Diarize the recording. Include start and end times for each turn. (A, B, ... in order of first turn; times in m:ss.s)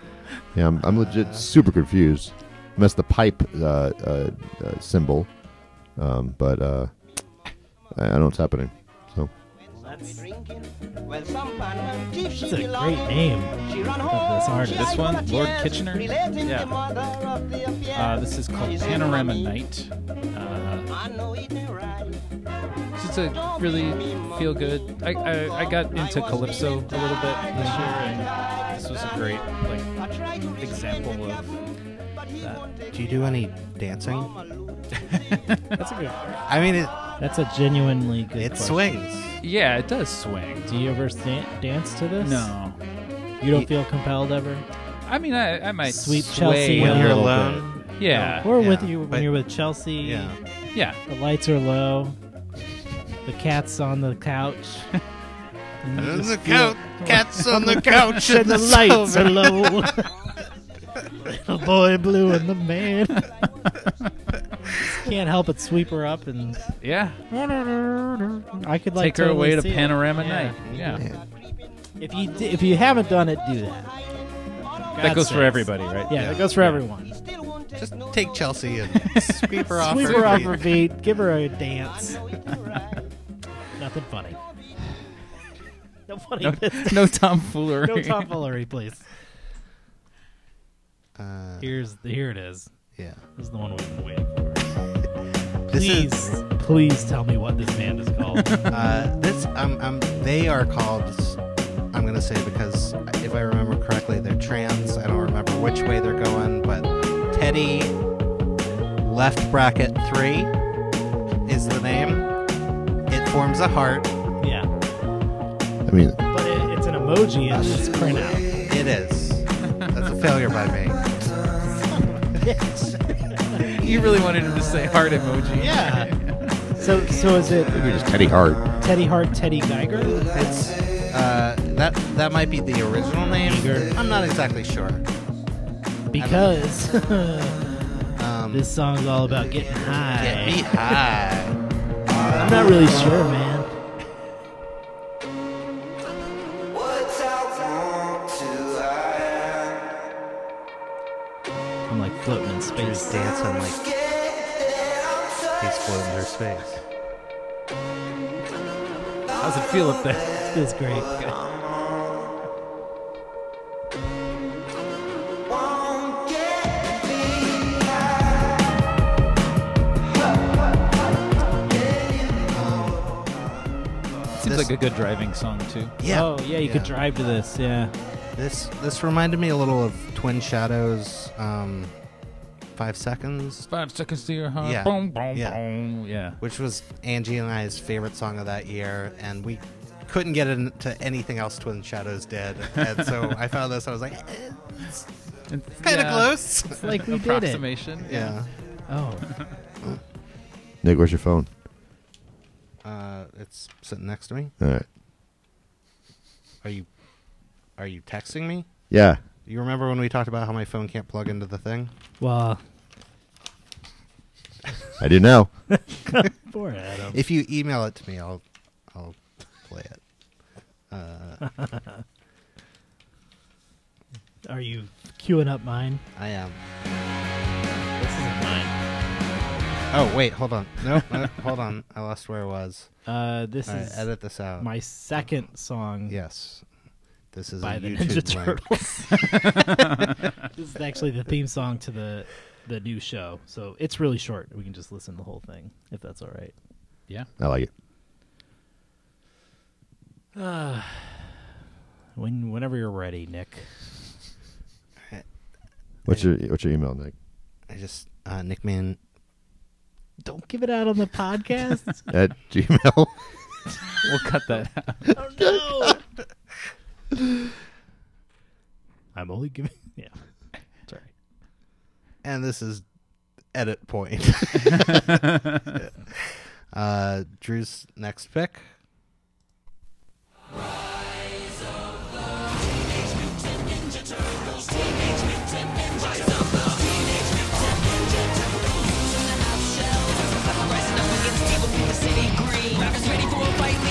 0:00.5-0:07.2 A
0:00.8-0:01.4 B
0:07.9-0:09.3 A
0:09.8-0:10.2 C
0:12.4-0:14.9 C
0:14.6-0:16.9 D
0:17.9-0:20.9 D
0:22.9-0:31.6 D
0:27.5-0:27.8 B
0:27.5-0:28.2 C
0:32.9-0:34.4 B
0:35.8-0:36.4 C
0:36.5-0:37.0 B
0:37.2-0:39.0 C
0:38.4-0:39.4 B
0:39.4-0:40.7 D
0:40.7-0:42.6 C
0:42.2-0:42.8 D
0:43.4-0:44.6 C
0:45.0-0:47.2 D
0:45.8-0:50.3 C
0:46.7-0:49.3 B
0:48.0-0:48.5 D
0:50.0-0:50.4 B
0:51.1-0:52.2 C
0:53.2-0:54.9 C
0:55.8-1:00.1 C
0:55.9-0:59.9 B
1:01.2-1:03.3 C
1:04.8-1:06.7 C
1:06.8-1:08.2 D
1:08.6-1:10.6 C
1:09.0-1:11.0 D
1:10.6-1:10.9 B
1:11.0-1:11.2 A
1:12.0-1:13.9 C
1:14.9-1:17.1 C
1:15.0-1:16.8 D
1:17.8-1:20.6 B
1:19.0-1:20.5 D
1:19.8-1:22.3 C
1:23.8-1:24.4 C
1:26.1-1:27.1 C
1:26.4-1:28.3 D
1:27.8-1:29.0 C
1:31.2-1:31.7 B
1:31.6-1:32.7 C
1:33.4-1:34.8 C
1:35.7-1:36.3 B
1:35.7-1:38.6 C
1:38.7-1:41.4 B
1:41.9-1:47.9 B
1:49.0-1:50.5 B
1:51.4-1:52.3 B
1:53.1-1:54.1 B
1:54.4-1:54.7 C
1:55.8-1:56.2 A
1:56.3-1:58.5 C
1:58.6-2:01.1 B
2:01.6-2:03.7 C
2:03.7-2:06.6 D
2:05.6-2:06.1 C
2:06.8-2:07.8 C
2:07.7-2:08.6 A
2:08.8-2:10.2 C
2:10.2-2:15.0 B
2:13.4-2:13.9 C
2:16.1-2:17.6 C
2:16.1-2:16.6 B
2:18.2-2:18.7 B
2:18.5-2:20.7 C
2:20.2-2:21.6 B
2:22.2-2:22.7 B
2:22.3-2:23.7 C
2:31.9-2:33.2 C
2:32.7-2:33.8 B
2:35.6-2:36.8 B
2:39.4-2:40.3 D
2:40.4-2:41.4 C
2:52.5-2:53.1 B
2:54.4-2:56.0 D
2:54.4-2:54.7 B
2:56.0-2:56.9 B
2:56.0-2:57.9 C
2:58.4-3:01.9 B
3:02.7-3:03.7 B
3:03.7-3:06.4 D
3:04.6-3:05.6 B
3:06.4-3:15.0 B
3:15.5-3:18.3 D
3:15.8-3:16.8 B
3:16.7-3:18.3 C
3:18.0-3:18.5 B
3:18.9-3:19.3 C
3:20.8-3:21.5 A
3:22.8-3:24.5 B
3:24.6-3:24.8 A
3:26.6-3:26.9 B
3:27.8-3:28.8 B
3:28.9-3:29.2 A
3:29.4-3:31.9 B
3:32.2-3:32.6 C
3:35.0-3:35.5 A
3:35.7-3:37.2 C
3:37.1-3:40.0 B
3:40.9-3:41.6 B
3:41.4-3:42.0 C
3:44.4-3:46.0 C
3:46.2-3:46.6 B
3:48.0-3:48.7 C
3:49.9-3:52.9 B
3:53.0-3:56.2 C
3:53.6-3:54.7 B
3:56.1-3:56.6 B
3:57.3-3:58.8 B
3:57.6-3:59.8 C
4:00.5-4:06.5 C
4:07.4-4:07.7 A
4:10.3-4:11.3 C
4:12.2-4:13.7 C
4:16.0-4:17.1 A
4:17.7-4:19.0 B
4:20.2-4:22.1 C
4:22.1-4:23.1 A
4:24.0-4:25.1 D
4:25.1-4:26.0 C
4:29.1-4:30.2 C
4:30.8-4:31.1 C
4:32.2-4:32.8 B
4:33.5-4:35.2 B
4:35.7-4:38.6 B